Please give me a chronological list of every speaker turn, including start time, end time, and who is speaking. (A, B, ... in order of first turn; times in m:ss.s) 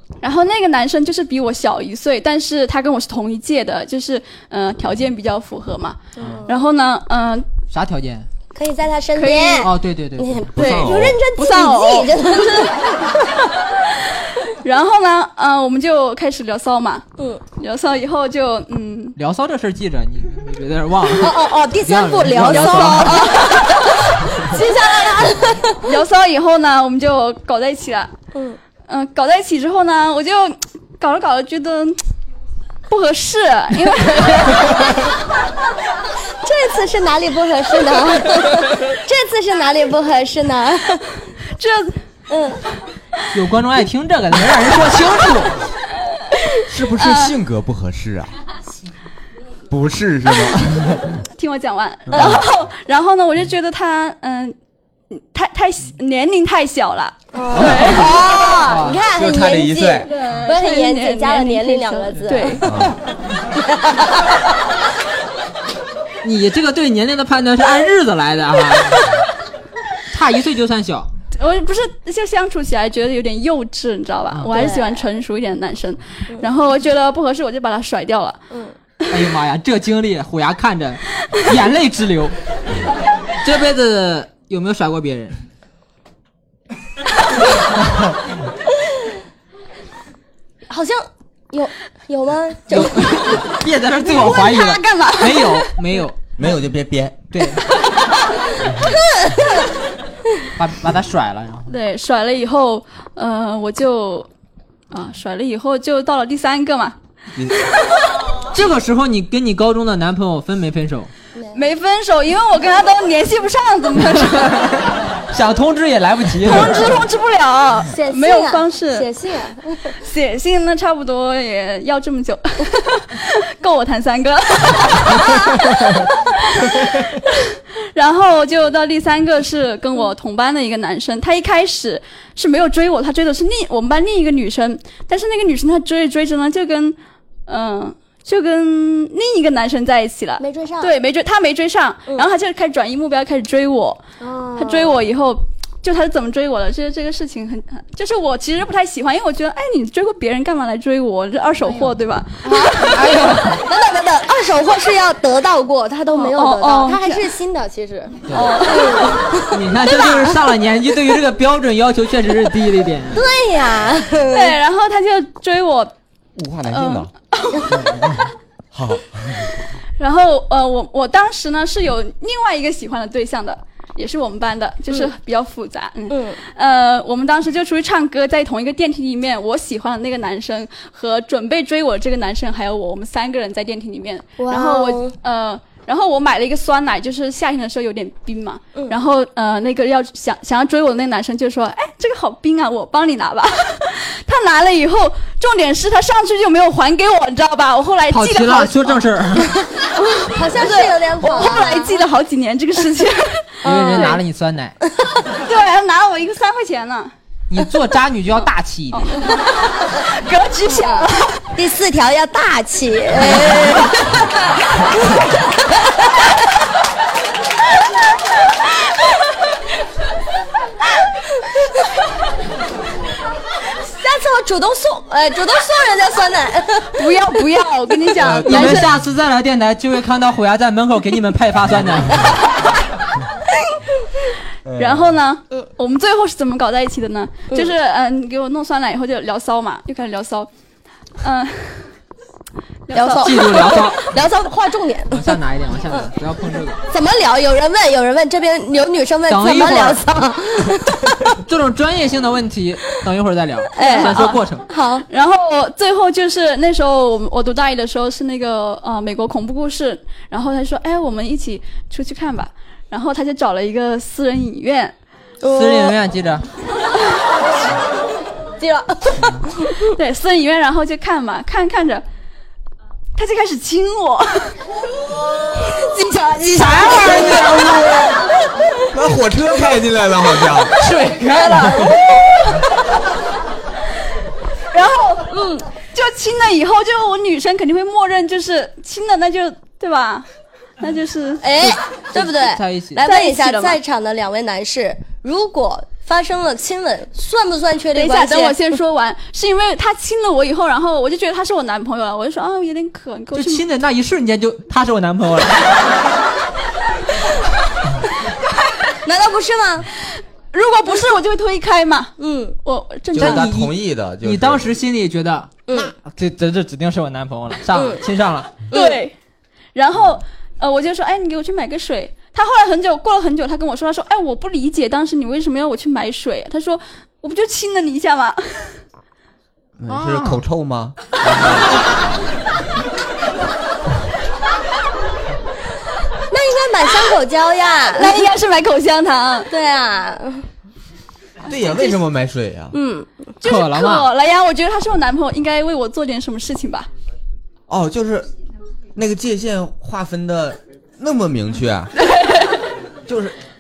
0:00.2-0:07.5 A
0:06.2-0:06.6 B
0:07.7-0:08.3 C
0:08.6-0:13.1 B
0:09.1-0:09.7 A
0:09.6-0:10.5 C
0:10.5-0:11.2 D
0:11.4-0:12.4 A
0:14.5-0:19.2 A
0:19.2-0:23.2 C
0:21.1-0:25.8 B
0:22.8-0:23.8 A
0:24.4-0:28.1 A
0:28.3-0:28.6 B
0:28.9-0:32.0 A
0:32.9-0:34.7 A
0:36.4-0:41.0 B
0:41.6-0:42.0 A
0:42.3-0:42.6 B
0:43.3-0:45.5 C
0:46.7-0:48.3 D
0:47.0-0:47.4 A
0:49.7-0:51.2 D
0:51.4-0:54.6 A
0:52.1-0:52.4 D
0:52.1-0:52.4 B
0:55.1-0:58.1 A
0:57.3-1:02.9 B
0:57.6-0:58.1 C
0:57.7-0:58.6 D
0:58.6-0:59.0 C
0:59.1-1:00.1 D
1:00.1-1:02.6 A
1:02.6-1:02.9 D
1:03.6-1:04.4 B
1:06.2-1:09.1 C
1:10.1-1:11.1 C
1:11.4-1:18.4 A
1:14.5-1:15.1 B
1:19.1-1:22.4 C
1:23.4-1:25.4 C
1:30.7-1:33.5 B
1:32.7-1:36.2 C
1:34.2-1:35.6 A
1:36.4-1:37.2 D
1:37.3-1:37.6 C
1:38.8-1:39.6 B
1:40.6-1:41.7 C
1:41.7-1:44.3 A
1:44.9-1:47.0 A
1:48.5-1:51.1 C
1:51.5-1:54.7 A
1:54.4-1:56.9 C
1:56.4-1:59.1 A
1:57.9-2:00.0 B
2:00.0-2:24.0 A
2:20.4-2:20.9 B
2:24.2-2:25.0 B
2:24.6-2:32.9 A
2:32.4-2:40.4 B
2:32.9-2:33.6 C
2:36.1-2:37.3 A
2:38.3-2:38.6 C
2:38.3-2:39.2 A
2:39.5-2:43.2 C
2:43.1-2:44.6 B
2:44.3-2:45.9 A
2:46.4-2:47.1 D
2:46.7-2:47.7 A
2:47.7-2:49.5 D
2:50.0-3:19.0 A
2:56.1-2:56.4 B
3:04.4-3:05.1 B
3:18.1-3:19.5 C
3:20.2-3:22.0 B
3:20.4-3:24.2 A
3:23.6-3:24.2 B
3:23.6-3:24.8 C
3:25.4-3:27.1 A
3:27.5-3:29.1 C
3:28.9-3:29.4 A
3:30.0-3:31.4 A
3:30.6-3:36.1 B
3:43.8-3:47.1 B
3:47.0-3:48.9 A
3:48.2-3:48.6 D
3:48.4-3:52.2 C
3:54.6-3:55.1 D
3:54.8-4:00.5 A
4:01.2-4:01.9 A
4:02.9-4:03.7 A
4:02.9-4:05.4 B
4:03.2-4:04.0 C
4:05.1-4:06.8 C
4:06.9-4:11.4 B
4:09.3-4:10.0 C
4:11.4-4:14.6 C
4:13.8-4:15.0 B
4:13.8-4:14.4 A
4:15.1-4:24.9 A
4:25.4-4:26.0 B
4:25.5-4:26.4 C
4:28.6-4:29.8 B
4:29.9-4:32.0 A
4:33.2-4:34.6 A
4:35.6-4:37.9 B
4:36.6-4:37.3 C
4:36.7-4:37.4 A
4:36.9-4:38.1 D
4:38.9-4:40.7 D
4:40.8-4:41.8 C
4:41.7-4:42.0 B
4:44.7-4:45.3 A
4:45.3-4:45.6 B
4:45.9-4:50.3 A
4:50.8-4:51.4 A
4:51.4-4:58.6 B
4:51.6-4:53.0 C
4:53.0-4:53.8 A
4:57.9-5:03.6 A
5:03.3-5:05.8 C
5:09.0-5:09.9 B
5:10.5-5:13.5 A
5:12.2-5:12.6 B
5:13.1-5:14.7 D
5:13.2-5:18.5 C
5:15.7-5:15.9 B
5:17.7-5:18.0 B
5:18.7-5:19.0 B
5:18.7-5:19.1 A
5:19.7-5:28.8 A
5:29.8-5:31.7 D
5:29.9-5:30.4 C
5:36.3-5:38.2 B
5:37.9-5:39.5 A
5:39.5-5:40.4 B
5:41.5-5:42.8 D
5:42.7-5:43.1 B
5:43.4-5:46.9 A
5:43.4-5:44.1 C
5:47.7-5:48.3 D
5:48.9-5:51.9 D
5:53.1-5:53.4 D